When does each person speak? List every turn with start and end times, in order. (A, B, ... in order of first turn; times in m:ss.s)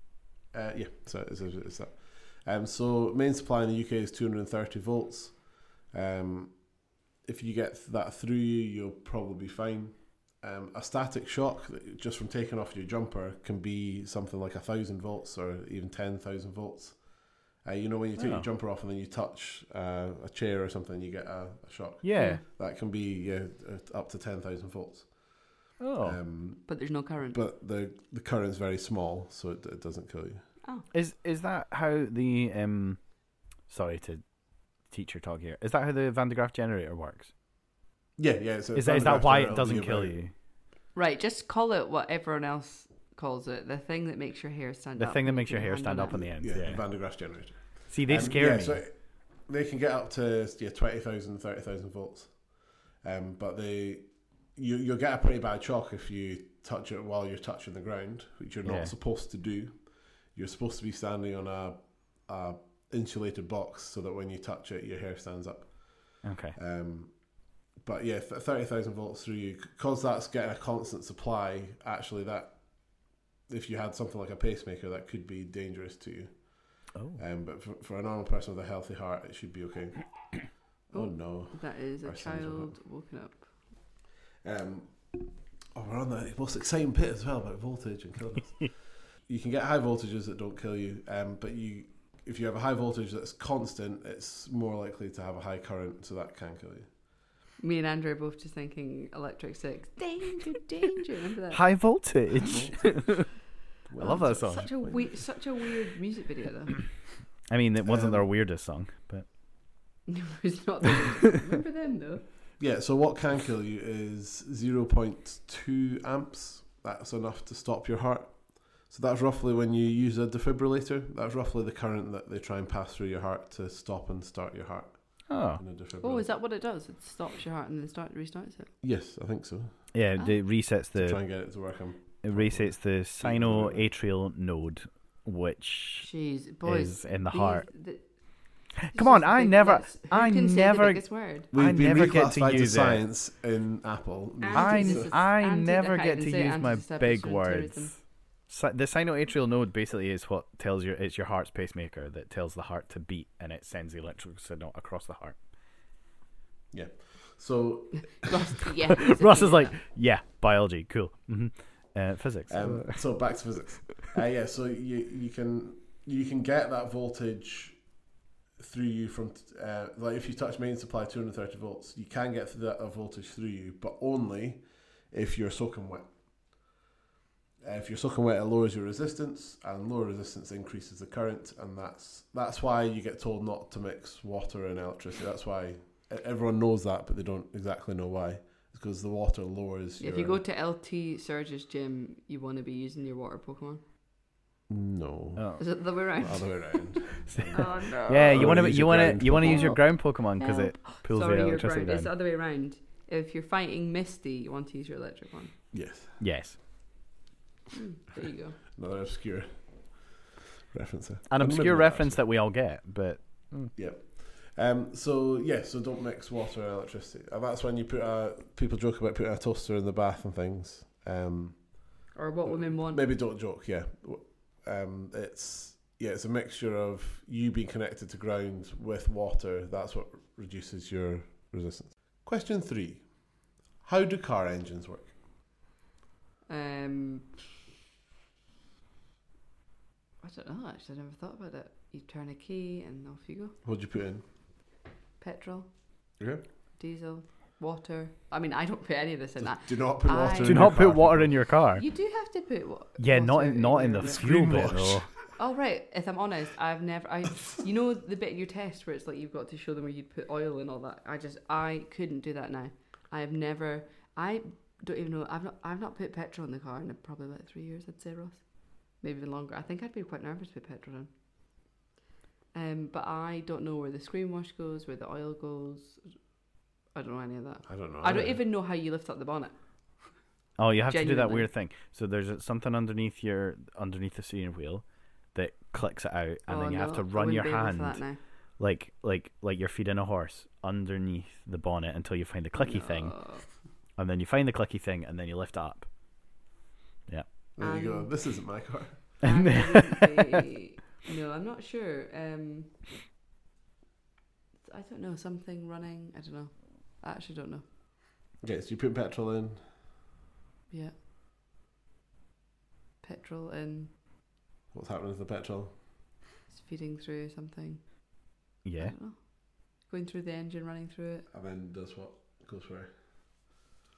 0:00.5-0:30.5 A
0:18.2-0:18.5 B
0:22.0-0:22.4 B
0:22.1-0:22.4 C
0:25.8-0:26.2 B
0:26.6-0:27.4 C
0:30.9-0:37.3 B
0:38.2-0:40.2 A
0:38.7-0:40.3 B
0:40.9-0:46.4 C
0:45.0-0:48.8 B
0:46.1-1:22.7 A
0:58.6-0:58.9 B
1:06.2-1:06.6 B
1:16.9-1:17.2 B
1:20.9-1:23.8 C
1:24.4-1:37.0 A
1:37.6-1:42.2 C
1:41.5-1:43.3 B
1:42.4-1:43.3 A
1:42.9-1:43.3 C
1:43.9-1:45.2 A
1:44.0-1:46.9 C
1:44.0-1:44.7 B
1:47.5-1:49.3 B
1:47.8-1:48.3 A
1:50.1-1:52.4 C
1:52.6-2:06.3 A
2:05.3-2:05.6 B
2:06.0-2:08.7 C
2:08.8-2:13.8 A
2:09.9-2:18.2 B
2:10.2-2:10.8 C
2:16.0-2:21.5 C
2:18.9-2:23.0 B
2:21.5-2:25.2 A
2:24.4-2:28.0 C
2:24.5-2:35.5 B
2:36.7-2:38.4 A
2:37.9-2:39.8 C
2:39.0-2:43.7 B
2:42.5-2:56.6 A
2:57.6-3:10.4 A
3:10.0-3:13.8 C
3:14.7-3:17.7 A
3:15.4-3:15.8 B
3:15.6-3:18.7 C
3:17.3-3:22.1 B
3:18.3-3:19.7 A
3:19.4-3:25.6 C
3:25.7-3:26.2 A
3:25.9-3:26.6 B
3:27.7-3:28.6 C
3:28.7-3:32.2 A
3:31.3-3:33.7 B
3:33.7-3:55.2 A
3:42.1-3:43.1 C
3:56.5-3:57.4 C
4:00.2-4:03.6 C
4:03.6-4:04.5 A
4:05.2-4:06.1 C
4:06.2-4:06.4 A
4:06.8-4:10.8 C
4:09.4-4:11.6 A
4:10.4-4:11.8 B
4:11.6-4:14.2 C
4:13.0-4:15.2 B
4:14.0-4:15.4 A
4:15.4-4:31.1 C
4:32.5-4:36.1 C
4:36.8-4:40.1 C
4:37.6-4:38.4 A
4:40.6-4:55.9 B
4:40.9-4:41.5 C
4:46.5-4:48.2 C
4:52.6-4:53.5 C
4:57.6-4:59.2 A
4:57.6-4:58.5 C
4:59.2-5:02.9 C
4:59.3-5:00.4 B
5:04.6-5:07.7 C
5:08.4-5:09.7 A
5:10.7-5:10.9 C
5:13.0-5:14.0 C
5:14.7-5:16.2 A
5:16.5-5:17.8 C
5:18.6-5:18.9 B
5:18.8-5:21.2 C
5:21.3-5:23.4 A